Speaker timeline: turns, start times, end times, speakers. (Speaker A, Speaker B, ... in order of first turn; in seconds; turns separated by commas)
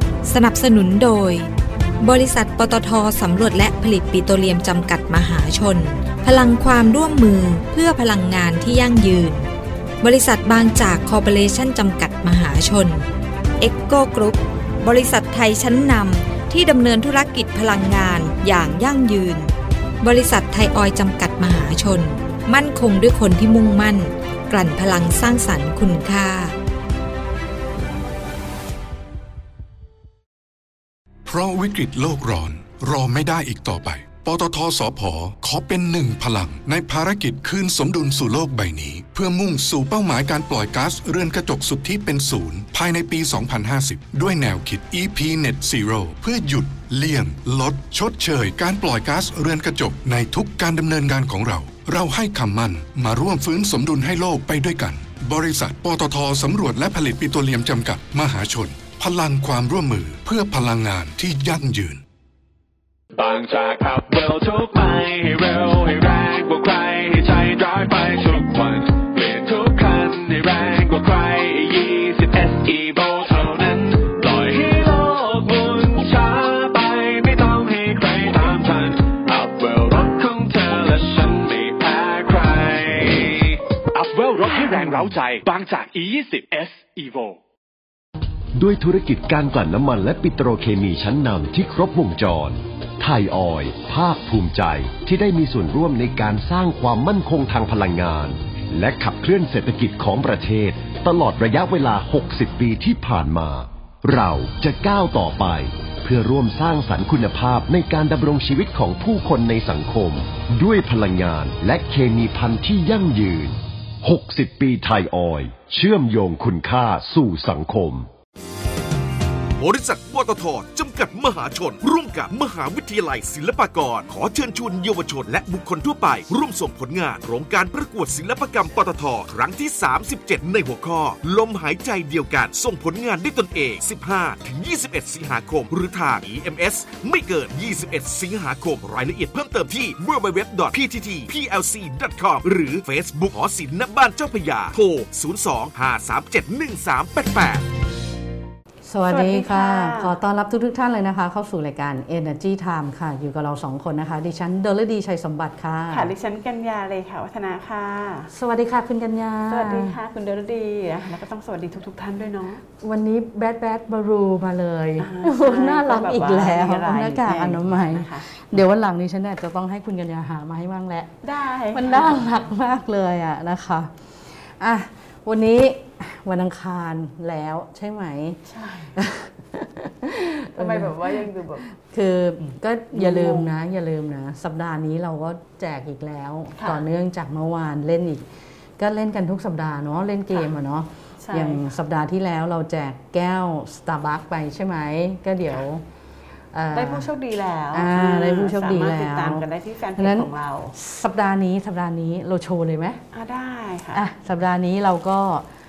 Speaker A: 0.3-1.5, Speaker A: 2.0-9.5, Speaker A: 10.0-13.1, Speaker A: 13.6-19.5, Speaker A: 20.0-26.6, Speaker B: 31.3-62.0, Speaker C: 63.1-87.4, Speaker D: 88.6-118.1, Speaker E: 119.6-147.7, Speaker F: 148.8-156.1, Speaker G: 149.1-150.2, Speaker G: 155.9-158.3, Speaker F: 158.3-159.9, Speaker G: 159.5-162.6, Speaker F: 162.8-171.2, Speaker G: 165.0-168.3, Speaker G: 171.2-172.4, Speaker F: 171.7-178.4, Speaker G: 178.5-179.0, Speaker F: 178.9-188.2, Speaker G: 180.5-181.7, Speaker G: 182.4-183.5, Speaker G: 186.6-186.8, Speaker F: 188.8-195.8, Speaker G: 191.2-191.7, Speaker F: 196.5-197.1, Speaker G: 196.7-200.8, Speaker F: 197.7-203.0, Speaker G: 203.1-204.0, Speaker F: 203.9-205.5